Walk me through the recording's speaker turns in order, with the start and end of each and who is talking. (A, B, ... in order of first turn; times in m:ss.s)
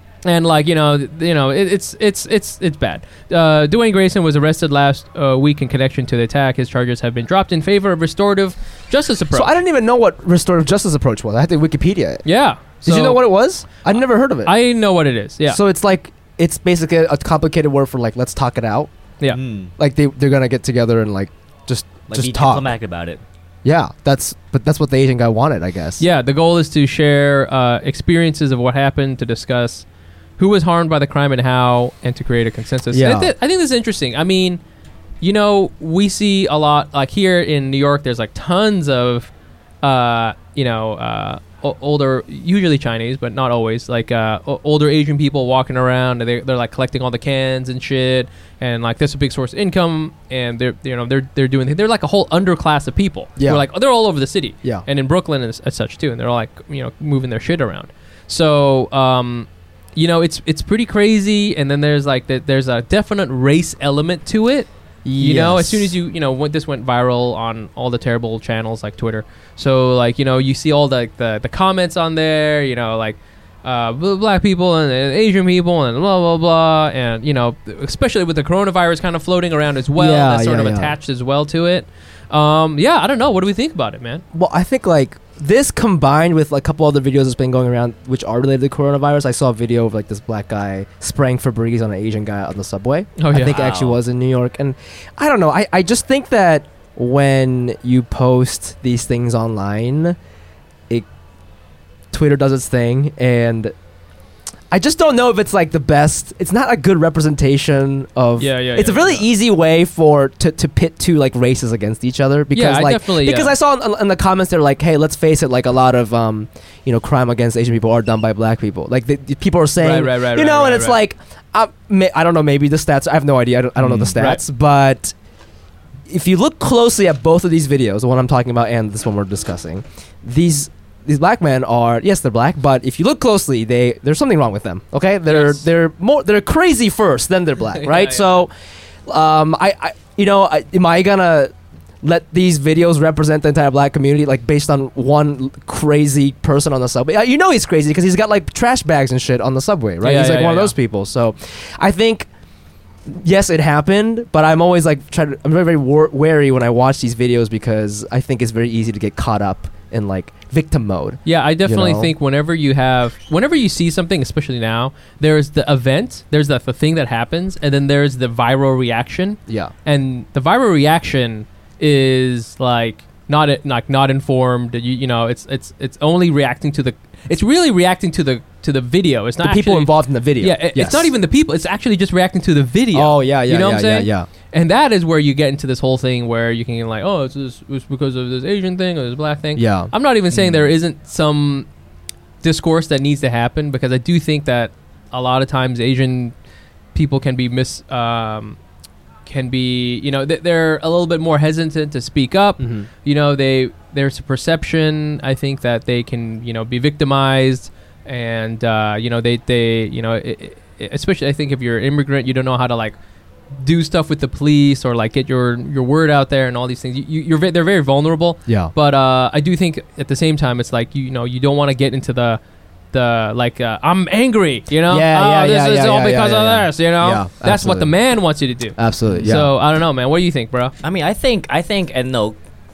0:00.2-0:09.5 A
0:09.3-0:12.2 B
0:12.2-0:13.3 A
0:12.8-0:14.5 B
0:14.4-0:15.6 A
0:15.5-0:18.9 B
0:19.3-0:19.7 C
0:19.8-0:22.7 B
0:22.1-0:23.2 C
0:23.6-0:26.0 B
0:26.0-0:29.8 A
0:30.4-0:34.6 A
0:32.9-0:33.3 B
0:35.2-0:39.3 A
0:39.8-1:24.2 A
0:53.4-0:53.6 B
1:05.0-1:05.9 B
1:19.9-1:21.0 B
1:24.3-1:40.2 B
1:33.2-1:33.6 A
1:33.4-1:34.0 C
1:42.1-1:43.7 B
1:44.7-2:05.1 B
1:48.4-1:49.2 A
1:52.5-1:53.5 A
1:59.8-2:01.0 A
2:03.8-2:04.1 C
2:04.2-2:04.4 A
2:06.1-2:18.5 B
2:15.3-2:15.6 A
2:17.8-2:18.3 A
2:19.0-2:32.3 B
2:30.0-2:30.7 A
2:33.0-2:42.1 B
2:41.2-3:11.7 A
2:49.5-2:49.7 B
2:59.4-3:01.1 B
3:02.9-3:04.3 B
3:09.6-3:09.9 B
3:12.4-3:16.3 A
3:16.9-3:18.6 A
3:19.2-3:33.0 A
3:22.6-3:22.9 B
3:33.5-3:42.4 A
3:38.5-3:38.7 B
3:42.9-3:50.7 A
3:44.9-3:47.9 B
3:48.8-3:49.5 B
3:50.8-3:52.4 C